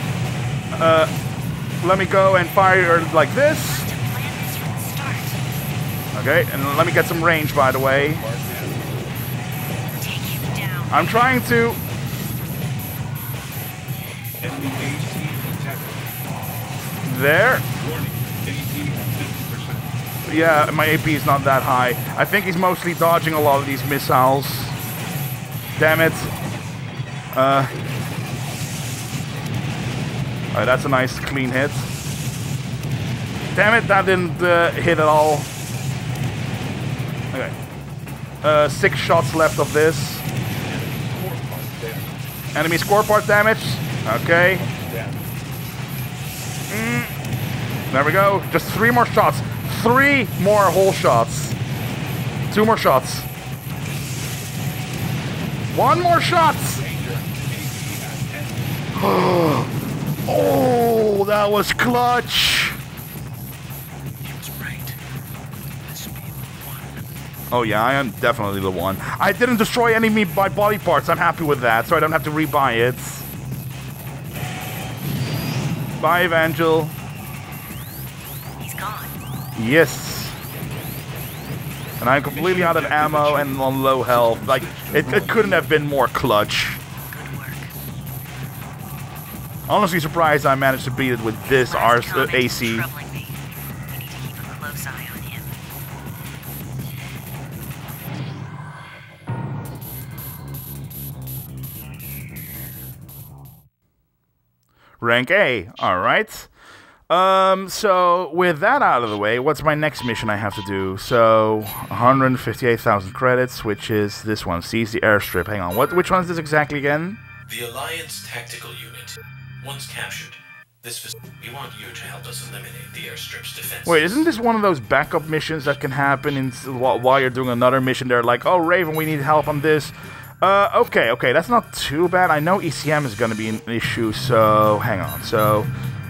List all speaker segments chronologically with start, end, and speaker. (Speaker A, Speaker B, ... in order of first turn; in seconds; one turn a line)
Speaker A: 0.7-1.1
Speaker A: 1.8-3.9
Speaker B: 3.6-5.4
Speaker A: 6.1-8.2
Speaker C: 8.1-8.8
Speaker B: 9.9-11.4
Speaker A: 10.9-11.8
Speaker C: 14.4-16.0
Speaker A: 17.0-17.6
Speaker C: 17.8-19.8
Speaker A: 20.2-24.8
Speaker A: 25.8-26.3
Speaker A: 27.3-27.7
Speaker A: 30.5-31.9
Speaker A: 33.5-35.5
Speaker A: 38.4-40.2
Speaker C: 40.8-42.1
Speaker A: 42.5-44.6
Speaker C: 44.7-45.2
Speaker A: 46.7-47.1
Speaker A: 47.9-51.5
Speaker A: 52.5-53.3
Speaker A: 55.7-56.8
Speaker C: 56.8-58.7
Speaker A: 58.9-59.7
Speaker A: 60.2-62.8
Speaker D: 64.2-65.0
Speaker D: 65.8-67.1
Speaker A: 67.5-73.2
Speaker A: 76.0-77.0
Speaker B: 78.6-79.2
Speaker A: 79.5-80.4
Speaker A: 82.0-86.8
Speaker C: 82.3-85.7
Speaker B: 87.1-87.7
Speaker A: 89.7-92.8
Speaker B: 91.4-93.4
Speaker B: 93.9-95.5
Speaker A: 105.0-106.5
Speaker A: 107.1-117.2
Speaker D: 117.5-124.3
Speaker A: 123.8-135.7